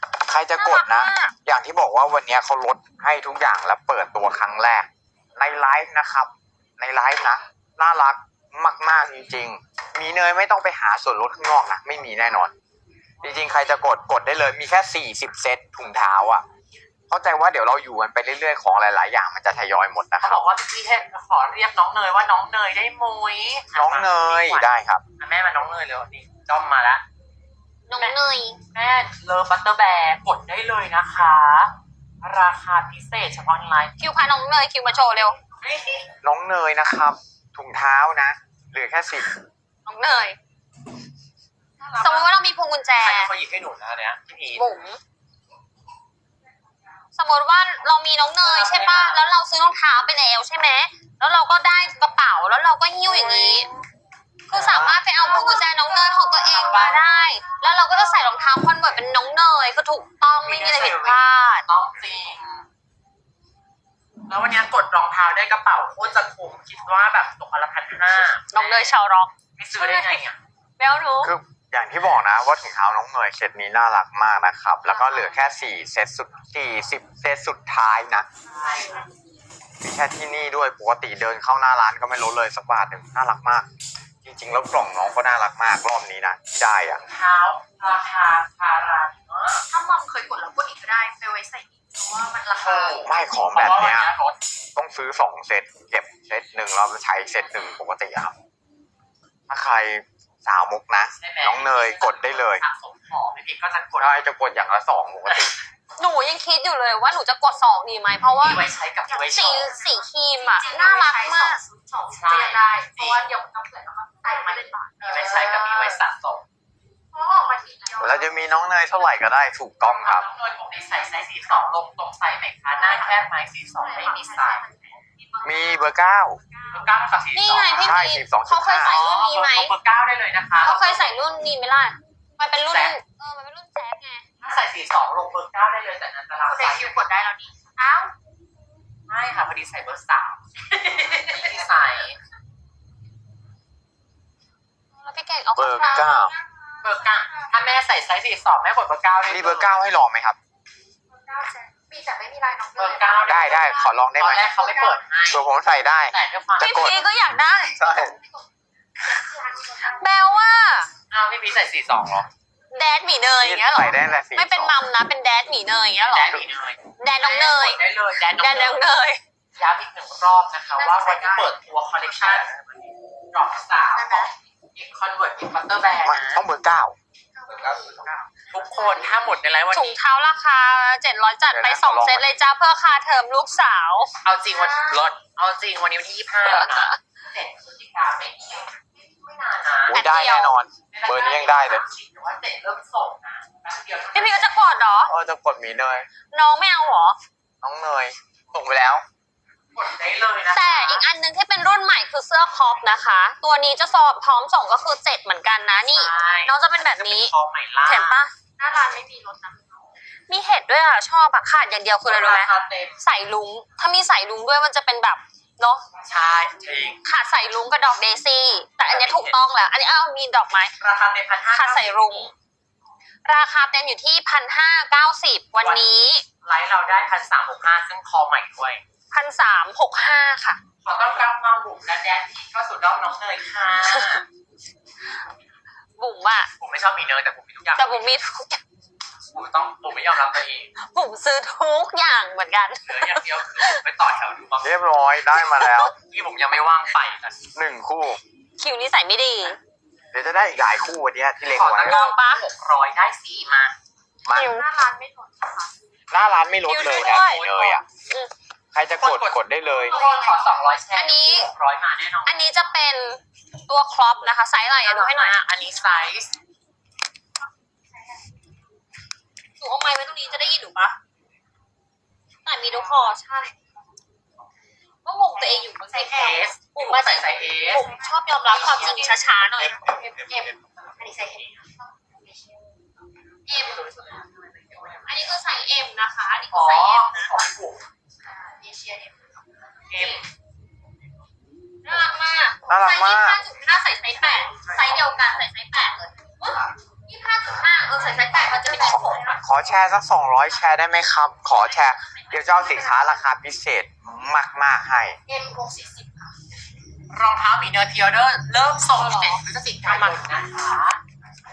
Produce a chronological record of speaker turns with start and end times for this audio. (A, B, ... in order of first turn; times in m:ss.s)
0:00.2-0:12.5 A
0:00.6-0:01.3 B
0:13.2-0:16.4 A
0:17.1-0:20.4 A
0:20.2-0:27.0 C
0:23.7-0:25.0 A
0:27.8-0:28.6 B
0:28.7-0:33.9 C
0:34.0-0:35.4 B
0:35.6-0:36.1 C
0:36.2-0:39.3 A
0:39.8-0:40.4 B
0:41.8-0:42.3 C
0:42.0-0:43.3 B
0:43.0-0:44.7 C
0:44.6-0:45.0 B
0:47.1-0:53.7 B
0:48.4-0:49.2 C
0:53.0-0:53.7 C
0:54.5-1:01.6 B
0:54.5-0:55.4 C
0:56.4-0:57.0 C
1:00.3-1:02.6 C
1:04.3-1:08.9 C
1:08.3-1:10.2 B
1:09.6-1:10.4 C
1:10.8-1:11.3 B
1:11.2-1:18.3 A
1:14.9-1:15.3 D
1:18.5-1:19.0 C
1:18.5-1:19.0 D
1:19.8-1:23.7 A
1:24.2-1:27.0 A
1:27.1-1:29.6 C
1:29.7-1:33.2 D
1:32.6-1:34.4 C
1:33.0-1:34.1 A
1:34.7-1:38.3 A
1:39.5-1:42.6 A
1:41.2-1:44.2 C
1:44.0-1:45.5 A
1:46.0-1:48.6 B
1:48.4-1:49.8 C
1:49.0-1:56.0 D
1:49.3-1:51.6 B
1:52.1-1:53.2 C
1:55.0-1:56.4 C
1:57.1-1:58.3 D
1:58.0-2:00.2 A
1:59.8-2:04.6 C
2:02.8-2:03.1 D
2:03.7-2:05.9 D
2:05.4-2:06.4 A
2:06.5-2:06.9 D
2:06.7-2:07.8 C
2:07.3-2:09.7 B
2:07.7-2:09.0 A
2:08.9-2:11.2 C
2:10.6-2:14.2 B
2:12.6-2:13.0 C
2:14.4-2:17.0 C
2:16.4-2:18.1 D
2:19.1-2:22.2 C
2:25.0-2:26.2 B
2:25.5-2:26.3 A
2:25.8-2:26.4 D
2:26.8-2:29.8 C
2:27.0-2:27.5 D
2:29.3-2:30.4 A
2:31.1-2:35.0 D
2:32.7-2:35.4 C
2:33.2-2:34.5 A
2:35.2-2:37.0 A
2:36.1-2:37.0 C
2:36.6-2:37.9 B
2:37.8-2:38.1 A
2:37.9-2:38.4 D
2:39.0-2:40.0 D
2:39.9-2:40.9 B
2:41.1-2:42.3 C
2:42.7-2:46.4 B
2:43.4-2:44.8 A
2:46.1-2:48.8 C
2:47.0-2:47.8 B
2:48.4-2:49.2 B
2:49.6-2:56.4 C
2:50.7-2:52.4 D
2:53.9-2:54.3 D
2:56.0-2:57.0 A
2:57.3-2:59.1 D
2:58.5-3:00.0 C
2:59.7-3:04.1 B
3:01.5-3:02.3 A
3:04.2-3:10.0 C
3:04.5-3:05.0 D
3:06.4-3:07.0 B
3:09.8-3:11.8 A
3:09.9-3:10.5 B
3:10.9-3:14.5 C
3:14.1-3:15.1 B
3:15.1-3:16.1 A
3:16.3-3:17.2 B
3:17.6-3:19.0 A
3:19.7-3:21.0 C
3:20.5-3:27.3 B
3:25.8-3:28.2 C
3:27.8-3:28.3 B
3:28.6-3:29.9 D
3:30.3-3:35.8 B
3:32.0-3:33.0 C
3:36.0-3:37.0 C
3:37.0-3:40.7 B
3:38.8-3:39.4 C
3:40.8-3:42.3 C
3:41.5-3:42.3 B
3:43.2-3:46.2 B
3:45.6-3:45.8 C
3:46.4-3:48.8 C
3:49.1-3:50.6 B
3:50.8-3:54.2 C
3:56.0-3:56.5 B
3:56.6-3:58.0 C
3:57.7-3:58.6 B
3:59.3-4:00.7 C
4:00.8-4:03.8 B
4:02.8-4:04.8 C
4:04.6-4:05.9 A
4:05.4-4:05.9 B
4:05.9-4:07.4 C
4:07.5-4:08.2 A
4:08.6-4:09.6 B
4:10.1-4:12.1 A
4:11.5-4:13.7 C
4:11.9-4:12.4 B
4:14.2-4:14.6 A
4:14.3-4:14.6 B
4:14.4-4:15.7 D
4:16.1-4:17.8 A
4:16.6-4:17.5 B
4:16.8-4:17.8 C
4:18.0-4:18.3 B
4:18.7-4:20.0 A
4:19.0-4:22.4 C
4:19.7-4:20.6 D
4:20.9-4:21.5 B
4:22.2-4:25.3 B
4:24.8-4:26.3 C
4:29.6-4:31.0 B
4:32.4-4:33.5 B
4:35.0-4:39.8 B
4:35.3-4:36.5 D
4:36.1-4:37.9 C
4:38.5-4:39.1 C
4:38.5-4:39.2 D
4:39.9-4:42.6 D
4:43.5-4:43.9 B
4:43.5-4:45.0 C
4:45.0-4:47.3 B
4:46.5-4:47.8 C
4:48.2-4:49.4 D
4:49.9-4:50.2 C
4:49.9-4:50.2 B
4:51.8-4:59.4 B
4:52.7-4:53.4 A
4:58.3-4:59.1 D
4:58.7-5:05.2 A
5:02.1-5:02.5 B
5:05.3-5:06.3 D
5:07.1-5:11.0 C
5:08.9-5:10.2 B